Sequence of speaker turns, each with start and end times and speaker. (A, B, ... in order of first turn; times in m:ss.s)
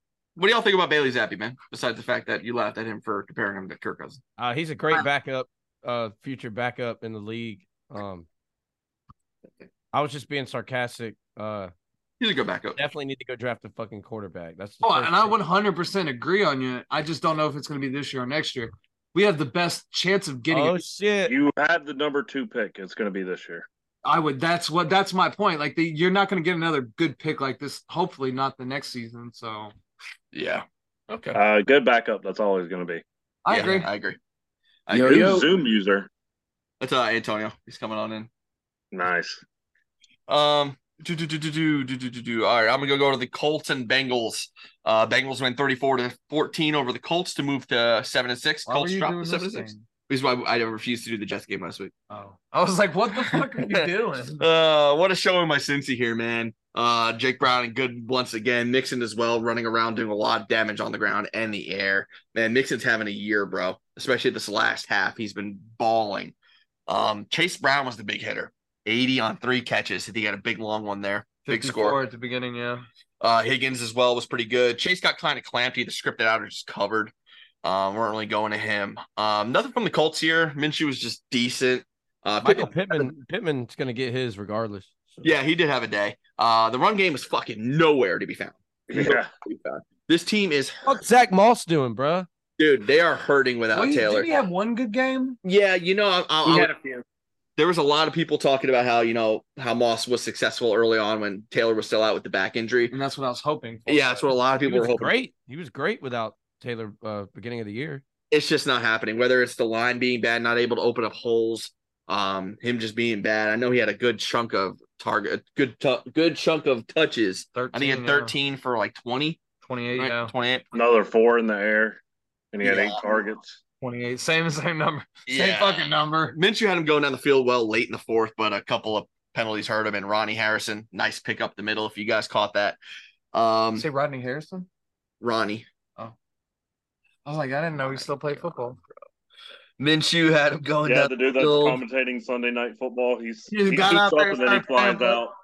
0:00.4-0:04.2 A
0:04.4-0:08.3 B
0:09.9-0:11.7 B
0:12.2-0:12.8 A
0:12.8-0:15.4 B
0:14.8-0:20.8 C
0:20.5-0:21.4 B
0:21.3-0:23.7 D
0:24.0-0:29.7 C
0:30.3-0:31.4 A
0:31.4-0:33.0 D
0:33.4-0:33.9 C
0:33.5-0:34.2 A
0:34.9-0:35.5 A
0:34.9-0:35.4 C
0:35.1-0:36.1 D
0:36.8-0:38.3 A
0:38.9-0:39.4 D
0:40.3-0:51.9 A
0:48.7-0:49.8 C
0:52.1-0:54.4 C
0:53.3-1:06.4 A
1:06.9-1:12.0 A
1:11.5-1:12.8 C
1:13.2-1:23.1 A
1:22.4-1:25.3 B
1:25.2-1:31.1 A
1:28.9-1:29.3 D
1:30.9-1:32.3 B
1:32.6-1:34.3 A
1:33.7-1:35.4 C
1:35.4-1:36.7 A
1:36.5-1:37.0 C
1:37.6-1:43.0 A
1:42.9-1:44.3 C
1:43.9-1:45.2 A
1:44.6-1:48.0 B
1:48.3-1:59.4 A
1:57.5-1:58.3 C
1:59.6-2:00.3 C
1:59.9-2:00.6 A
2:00.7-2:02.0 D
2:02.5-2:03.6 D
2:02.6-2:03.0 A
2:03.8-2:06.4 C
2:05.3-2:12.8 A
2:13.3-2:13.9 A
2:13.8-2:14.7 C
2:15.2-2:15.7 A
2:17.2-2:18.8 C
2:17.8-2:18.8 A
2:19.8-2:21.8 A
2:20.8-2:25.3 D
2:23.5-2:25.2 C